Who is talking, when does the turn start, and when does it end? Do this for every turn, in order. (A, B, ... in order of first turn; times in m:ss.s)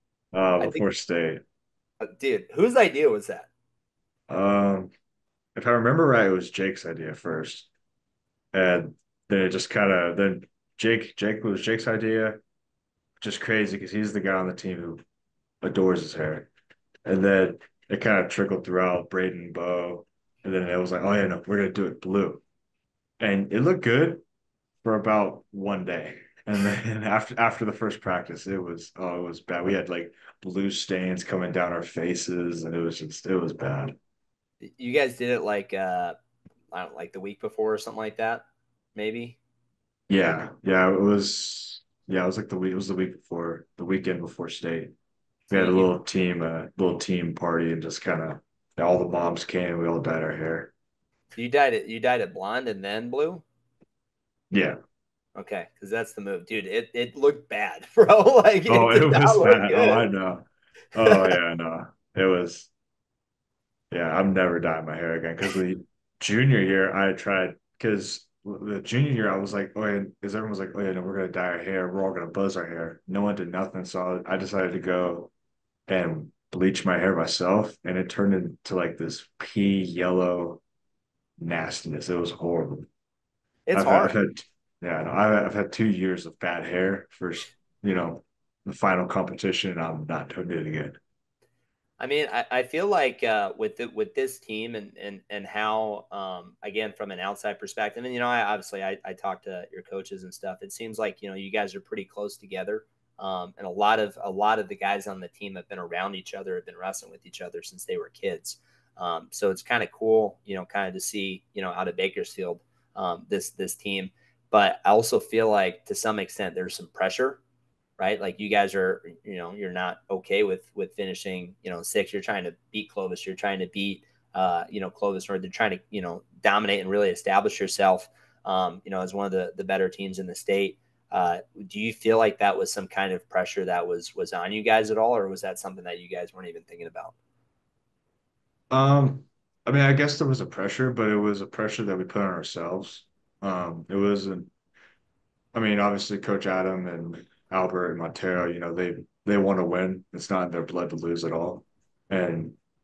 0:00.3-0:01.4 A
0:00.6-0:00.9 B
0:02.0-0:03.5 B
0:04.3-0:04.9 A
0:05.6-0:07.7 A
0:08.5-0:12.4 A
0:13.2-0:15.0 A
0:15.6-0:16.5 A
0:17.0-0:22.4 A
0:23.2-0:24.2 A
0:24.8-0:34.0 A
0:34.6-0:36.2 B
0:36.7-0:39.4 B
0:40.1-0:44.9 A
0:45.5-0:50.7 A
0:45.5-0:45.9 B
0:51.4-0:53.4 B
0:54.5-0:54.8 A
0:55.4-1:00.0 B
0:58.7-1:02.7 A
1:01.0-1:01.3 B
1:03.9-1:15.3 A
1:15.9-1:20.6 A
1:21.4-1:22.9 A
1:23.7-1:24.2 B
1:23.7-1:31.0 A
1:32.0-1:57.4 B
1:58.0-2:17.1 B
2:18.7-2:24.5 A
2:25.5-2:32.6 A